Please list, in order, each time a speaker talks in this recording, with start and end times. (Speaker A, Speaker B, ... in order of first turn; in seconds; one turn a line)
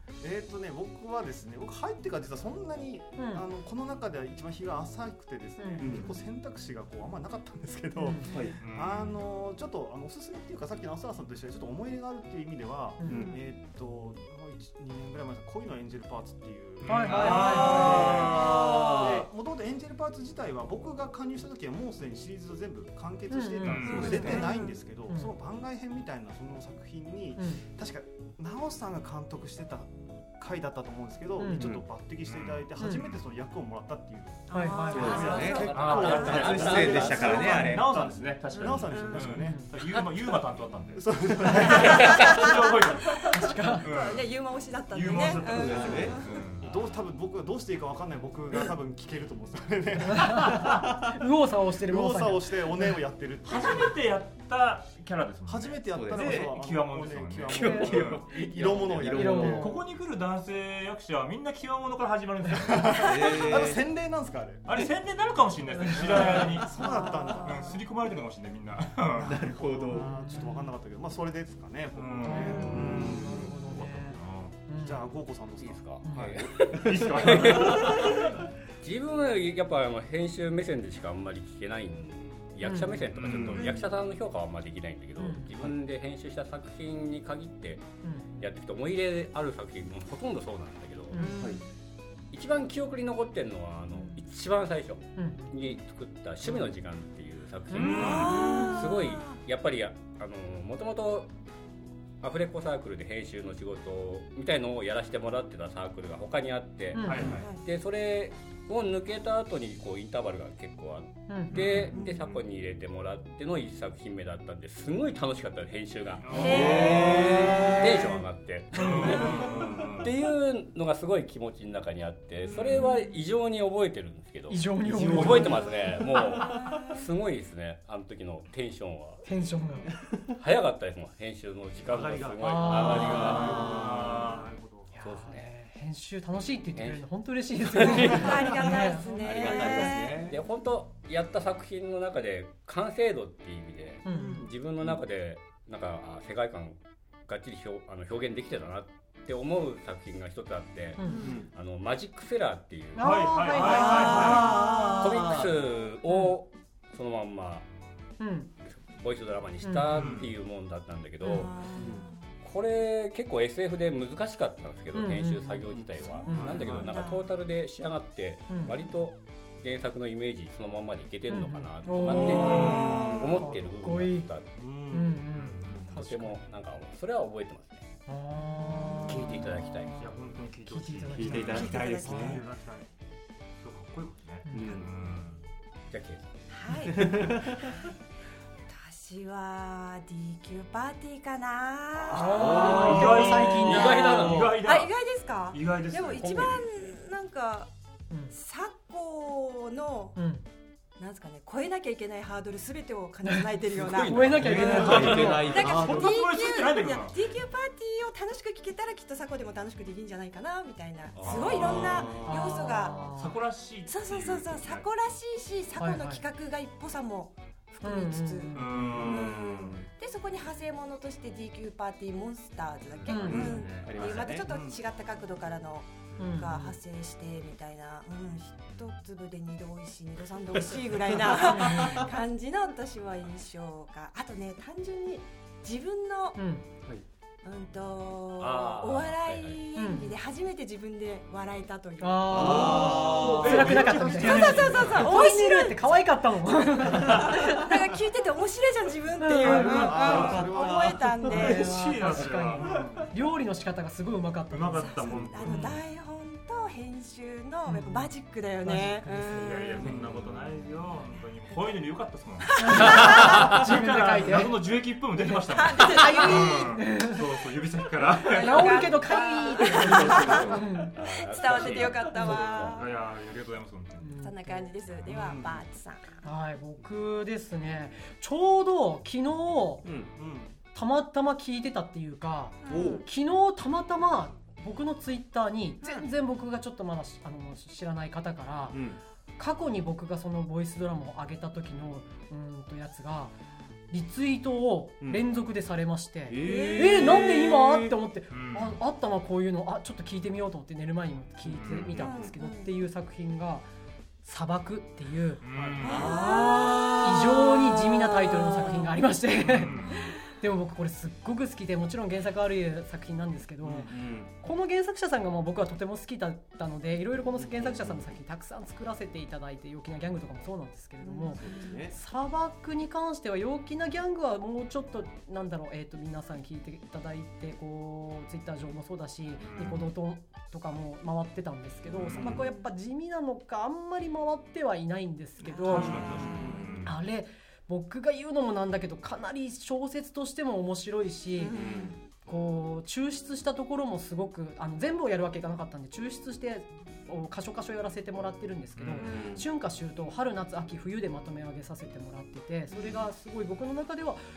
Speaker A: 0.2-39.6
Speaker B: 3.2-3.4
Speaker B: 5.6-6.1
Speaker C: 5.8-6.1
Speaker B: 8.0-8.3
Speaker C: 8.3-8.5
Speaker D: 8.6-9.2
Speaker B: 13.0-13.3
Speaker C: 13.1-13.4
Speaker D: 16.8-18.4
Speaker B: 16.9-18.1
Speaker C: 17.1-19.2
Speaker E: 18.0-18.3
Speaker B: 23.3-24.5
Speaker D: 23.6-24.4
Speaker C: 23.8-24.3
Speaker F: 23.9-24.8
Speaker B: 25.1-25.3
Speaker B: 31.4-31.8
Speaker C: 31.5-31.8
Speaker D: 32.2-33.2
Speaker B: 32.8-33.1
Speaker F: 34.5-36.5
Speaker B: 34.5-35.4
Speaker C: 34.9-37.9
Speaker E: 35.4-37.2
Speaker D: 35.7-46.8
Speaker F: 37.1-37.5
Speaker F: 38.8-39.3
Speaker B: 39.3-39.7
Speaker A: 40.9-42.4
Speaker F: 41.9-42.4
Speaker F: 43.1-46.4
Speaker B: 43.3-43.9
Speaker B: 45.0-45.4
Speaker C: 45.4-46.2
Speaker A: 46.6-50.9
Speaker B: 50.2-53.0
Speaker A: 51.9-54.0
Speaker D: 53.4-58.2
Speaker A: 55.5-59.8
Speaker C: 55.9-56.6
Speaker C: 57.4-59.7
Speaker B: 57.5-58.0
Speaker B: 59.0-59.8
Speaker D: 59.4-63.4
Speaker A: 62.7-64.7
Speaker C: 62.9-63.8
Speaker D: 64.6-66.8
Speaker A: 65.8-67.8
Speaker F: 66.8-67.7
Speaker D: 67.3-69.4
Speaker A: 69.1-73.5
Speaker C: 69.2-70.1
Speaker B: 69.9-70.7
Speaker D: 71.9-74.5
Speaker B: 72.2-75.1
Speaker C: 72.6-73.5
Speaker A: 74.8-75.8
Speaker E: 75.6-87.8
Speaker B: 76.0-76.4
Speaker D: 76.7-78.3
Speaker B: 82.6-83.1
Speaker D: 83.1-83.6
Speaker C: 83.2-83.8
Speaker F: 83.5-83.9
Speaker B: 85.2-85.6
Speaker B: 88.0-88.5
Speaker E: 88.4-91.2
Speaker B: 91.1-91.4
Speaker F: 91.2-91.6
Speaker C: 91.4-91.6
Speaker E: 92.3-101.3
Speaker B: 95.2-95.6
Speaker B: 97.7-98.6
Speaker D: 97.7-98.5
Speaker F: 98.0-99.4
Speaker E: 102.2-119.4
Speaker B: 106.9-107.3
Speaker D: 107.0-107.5
Speaker F: 107.1-107.6
Speaker B: 111.3-111.6
Speaker C: 111.5-112.4
Speaker D: 111.5-111.9
Speaker D: 116.2-117.7
Speaker F: 116.3-118.1
Speaker C: 116.3-118.2
Speaker D: 118.7-120.2
Speaker E: 120.0-129.2
Speaker D: 122.4-122.9
Speaker B: 124.5-125.6
Speaker C: 124.8-125.5
Speaker F: 126.4-127.0
Speaker B: 129.2-129.9
Speaker E: 130.4-133.6
Speaker D: 131.9-134.9
Speaker B: 132.4-133.7
Speaker C: 132.6-134.2
Speaker B: 134.9-139.9
Speaker E: 135.0-135.4
Speaker E: 136.8-137.0
Speaker E: 137.6-138.6
Speaker F: 138.1-140.3
Speaker C: 139.2-140.4
Speaker E: 139.5-153.3
Speaker B: 144.1-144.4
Speaker F: 144.1-144.5
Speaker B: 151.0-151.2
Speaker F: 151.0-151.4
Speaker C: 151.2-151.5
Speaker B: 152.9-154.6
Speaker D: 153.0-154.7
Speaker F: 154.0-155.0
Speaker C: 154.0-155.5
Speaker E: 154.8-157.7
Speaker B: 156.1-156.4
Speaker B: 158.2-158.5
Speaker E: 158.6-161.8
Speaker B: 159.6-160.1
Speaker D: 159.9-160.3
Speaker F: 161.2-162.3
Speaker C: 161.8-162.1
Speaker E: 162.4-174.5
Speaker B: 164.9-165.7
Speaker C: 165.8-167.0
Speaker F: 166.1-167.3
Speaker B: 166.2-166.6
Speaker D: 166.4-166.9
Speaker B: 168.5-168.8
Speaker B: 171.3-174.3
Speaker C: 172.1-173.3
Speaker D: 172.2-172.9
Speaker D: 174.6-175.9
Speaker B: 174.9-176.5
Speaker E: 175.9-177.9
Speaker B: 178.1-181.8
Speaker E: 179.1-179.9
Speaker D: 180.0-182.9
Speaker C: 181.1-182.4
Speaker F: 181.5-182.4
Speaker D: 183.6-185.4
Speaker B: 184.4-184.8
Speaker C: 184.5-184.9
Speaker E: 185.9-186.2
Speaker F: 186.5-187.9
Speaker C: 186.9-187.6
Speaker F: 188.7-192.5
Speaker B: 192.1-194.4
Speaker C: 192.2-193.4
Speaker E: 192.2-194.6
Speaker D: 192.4-196.6
Speaker F: 194.6-197.7
Speaker E: 196.2-196.9
Speaker B: 198.1-198.4
Speaker F: 198.3-200.2
Speaker B: 200.1-200.4
Speaker F: 201.0-213.0
Speaker E: 203.8-204.3
Speaker B: 204.0-205.6
Speaker C: 204.3-206.1
Speaker D: 204.5-207.4
Speaker E: 204.9-205.4
Speaker E: 211.2-211.6
Speaker D: 211.2-214.9
Speaker C: 211.5-212.6
Speaker B: 212.2-213.4
Speaker F: 213.9-236.4
Speaker B: 215.8-216.2
Speaker B: 217.8-219.0
Speaker D: 218.5-219.8
Speaker C: 219.0-219.8
Speaker D: 222.9-224.8
Speaker B: 223.1-223.5
Speaker C: 223.2-224.5
Speaker B: 226.2-226.8
Speaker B: 231.6-232.0
Speaker C: 231.7-232.1
Speaker B: 236.3-236.7
Speaker F: 237.4-242.5
Speaker E: 238.4-239.6
Speaker B: 239.8-240.2
Speaker B: 242.0-247.7
Speaker C: 242.3-244.0
Speaker D: 242.3-245.1
Speaker A: 242.5-243.1
Speaker A: 243.7-245.0
Speaker F: 244.0-251.7
Speaker D: 246.9-247.2
Speaker B: 249.2-250.2
Speaker D: 249.4-250.5
Speaker A: 249.7-251.1
Speaker C: 250.0-251.0
Speaker B: 251.2-255.8
Speaker D: 251.3-253.1
Speaker D: 254.5-255.8
Speaker F: 255.0-260.0
Speaker B: 257.7-259.7
Speaker D: 259.4-269.1
Speaker C: 259.8-260.2
Speaker B: 262.6-264.9
Speaker F: 262.7-263.2
Speaker E: 262.9-263.6
Speaker F: 265.3-266.7
Speaker B: 265.8-267.2
Speaker F: 268.1-273.0
Speaker B: 268.3-271.0
Speaker D: 269.7-270.4
Speaker E: 270.2-272.8
Speaker D: 271.4-274.1
Speaker B: 274.0-274.7
Speaker F: 274.2-276.2
Speaker D: 274.9-275.4
Speaker C: 275.1-275.6
Speaker B: 276.2-279.9
Speaker C: 279.8-280.1
Speaker D: 280.2-280.6
Speaker B: 280.7-288.8
Speaker F: 282.6-283.1
Speaker C: 282.7-283.1
Speaker C: 288.7-289.0
Speaker B: 289.4-293.4
Speaker B: 293.9-303.7
Speaker C: 296.3-297.9
Speaker F: 296.4-297.1
Speaker D: 298.3-298.8
Speaker D: 301.4-302.1
Speaker F: 301.9-302.7
Speaker B: 304.2-336.0
Speaker D: 305.4-306.2
Speaker F: 305.8-307.1
Speaker C: 305.8-306.9
Speaker F: 308.1-308.9
Speaker D: 309.4-309.9
Speaker C: 313.6-314.3
Speaker C: 317.4-318.1
Speaker F: 321.0-321.8
Speaker C: 321.3-321.9
Speaker D: 329.4-329.9
Speaker C: 331.9-332.5
Speaker D: 331.9-332.4
Speaker F: 332.4-332.7
Speaker D: 335.4-337.0
Speaker F: 335.7-336.8
Speaker C: 335.8-336.8
Speaker B: 336.8-341.6
Speaker F: 341.4-341.9
Speaker C: 341.5-342.0
Speaker B: 342.2-354.2
Speaker D: 348.8-349.1
Speaker C: 349.0-349.5
Speaker F: 349.0-349.4
Speaker F: 352.7-353.1